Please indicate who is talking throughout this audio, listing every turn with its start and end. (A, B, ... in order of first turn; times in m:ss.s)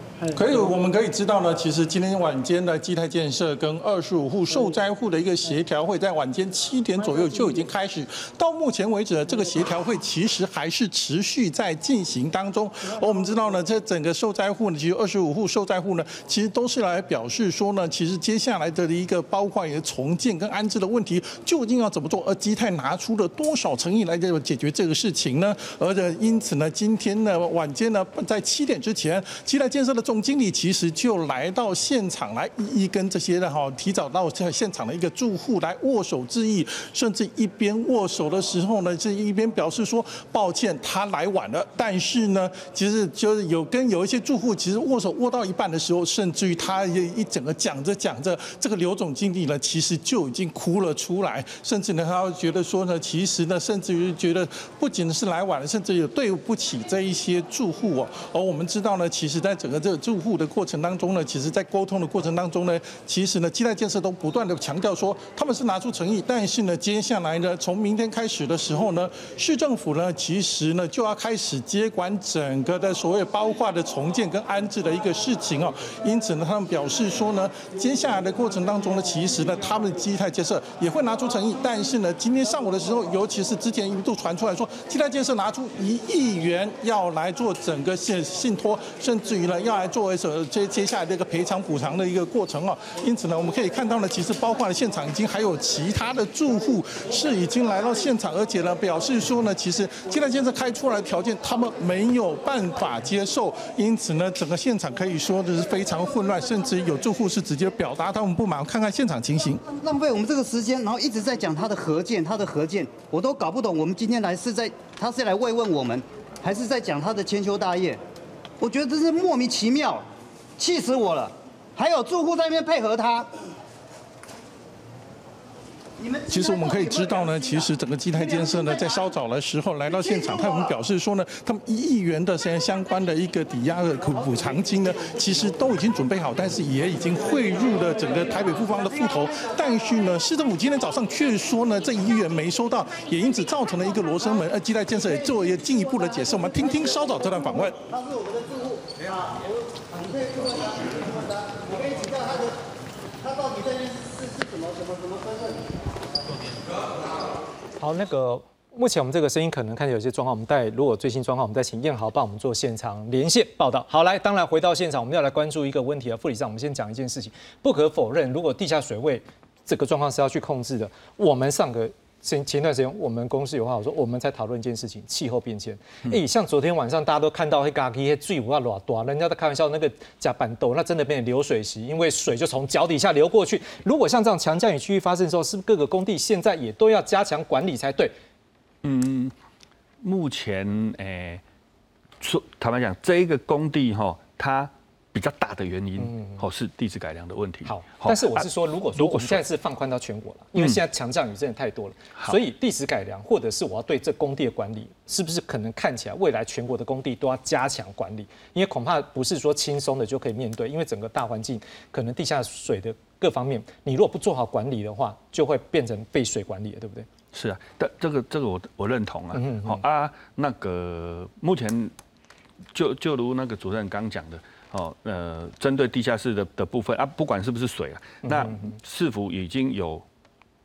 0:00.3-1:49.6 A
1:49.7-1:58.0 B
1:58.6-2:00.0 B
2:00.6-2:03.3 B
2:06.0-2:07.2 B
2:06.3-2:27.8 A
2:27.9-2:28.9 B
2:29.9-2:30.9 B
2:31.5-2:32.4 B
2:33.3-2:35.0 B
2:37.8-3:08.1 C
3:08.8-3:09.3 D
3:10.0-3:11.4 D
3:12.2-3:19.4 D
3:16.0-3:16.4 C
3:17.6-3:37.1 C
3:37.3-3:41.9 D
3:39.3-3:39.8 C
3:42.7-3:50.0 D
3:48.2-3:48.7 C